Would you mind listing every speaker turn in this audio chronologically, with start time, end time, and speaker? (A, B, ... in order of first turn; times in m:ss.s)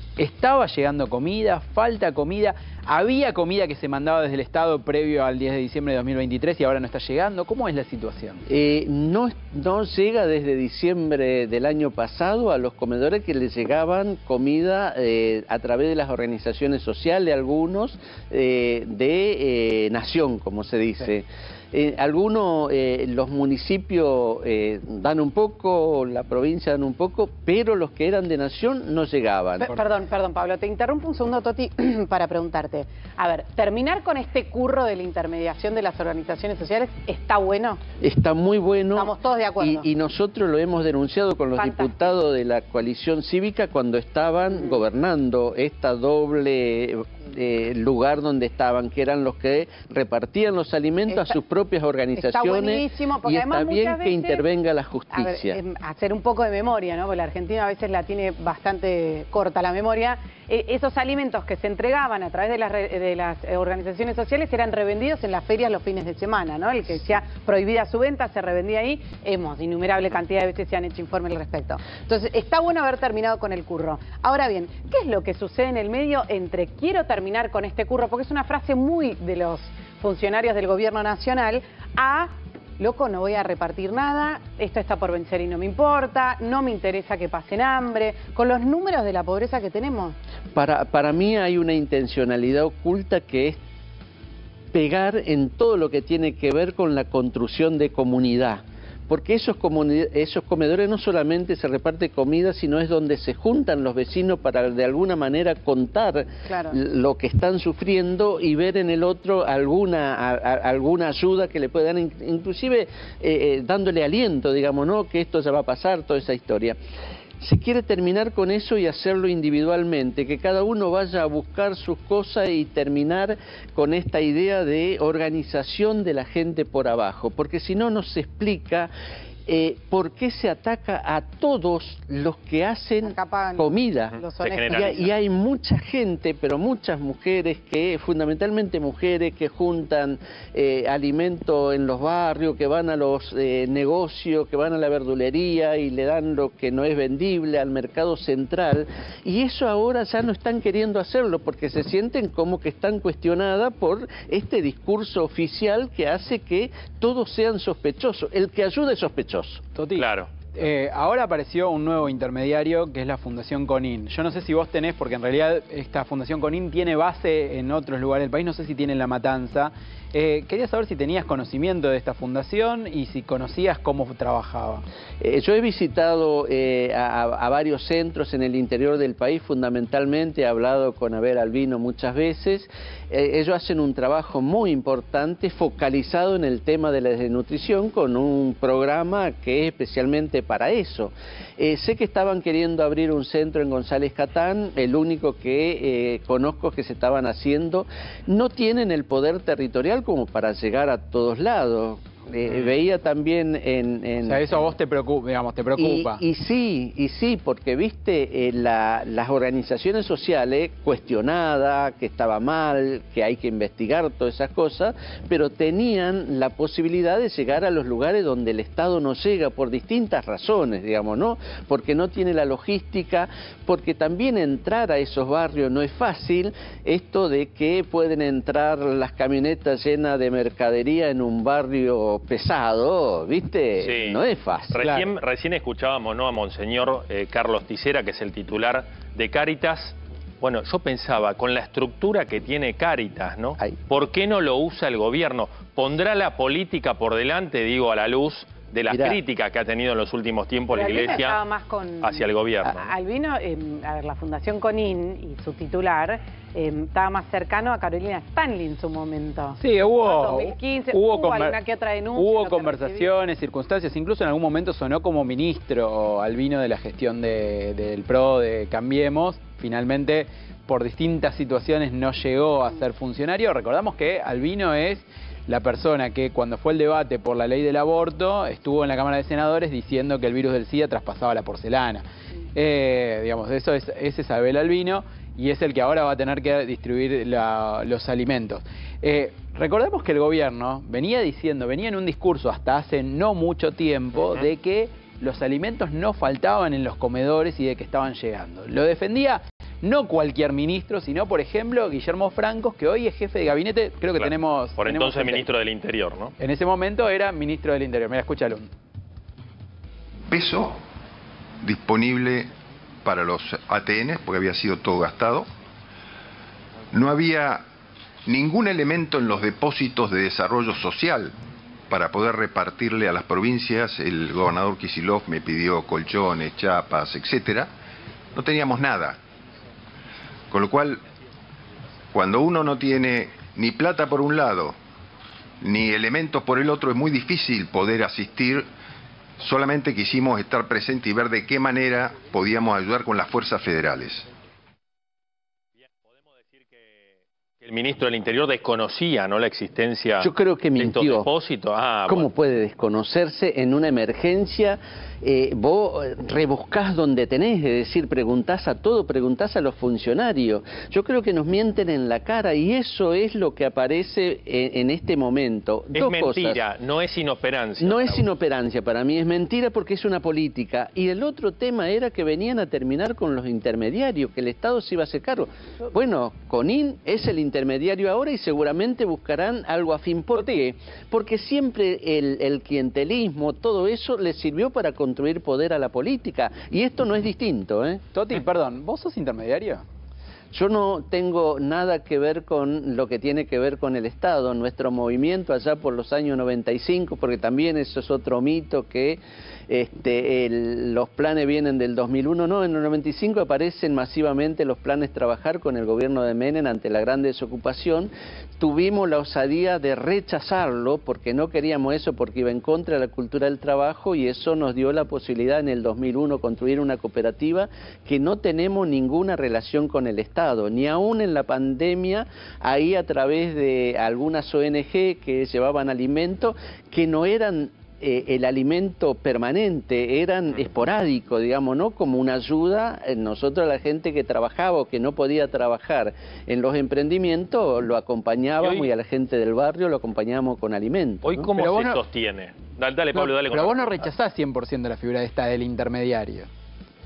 0:00.2-0:08.5 A
0:08.5-0:29.7 B
0:29.6-0:37.8 C
0:38.0-0:55.6 B
0:38.9-0:39.8 C
0:41.6-0:42.0 C
0:44.5-0:44.8 C
0:51.1-0:51.4 C
0:52.2-0:54.5 C
0:55.1-1:30.2 C
1:30.5-1:33.6 B
1:34.7-1:56.8 B
1:46.4-1:46.8 C
1:57.4-2:08.9 B
2:09.5-2:14.2 B
2:13.0-2:15.0 C
2:14.3-2:15.1 D
2:14.7-2:39.6 B
2:39.7-2:54.8 A
2:40.0-2:40.3 D
2:55.2-3:24.4 B
3:24.2-3:26.2 A
3:25.8-3:54.9 B
3:53.8-3:54.2 D
3:54.7-4:11.4 D
3:54.8-3:55.1 A
4:08.9-4:09.2 B
4:10.7-4:23.1 C
4:12.0-4:12.9 D
4:19.6-4:21.6 A
4:22.1-4:42.0 A
4:42.5-5:05.5 A
5:04.2-5:06.3 D
5:06.4-5:08.7 A
5:10.3-5:10.8 E
5:11.6-5:12.5 E
5:13.0-5:15.5 E
5:16.9-5:17.6 E
5:18.2-5:21.3 E
5:21.9-5:27.7 E
5:28.3-5:29.2 E
5:30.5-5:31.0 E
5:32.1-5:34.8 E
5:35.6-5:38.7 E
5:39.4-5:44.3 E
5:45.8-5:52.3 D
5:50.2-5:51.3 B
5:52.1-6:06.6 B
6:05.9-6:08.2 D
6:07.8-6:28.0 B
6:28.1-6:29.8 A
6:30.5-7:21.5 B
7:18.6-7:18.9 D
7:21.2-7:24.1 D
7:21.6-7:22.0 A
7:23.1-7:26.5 A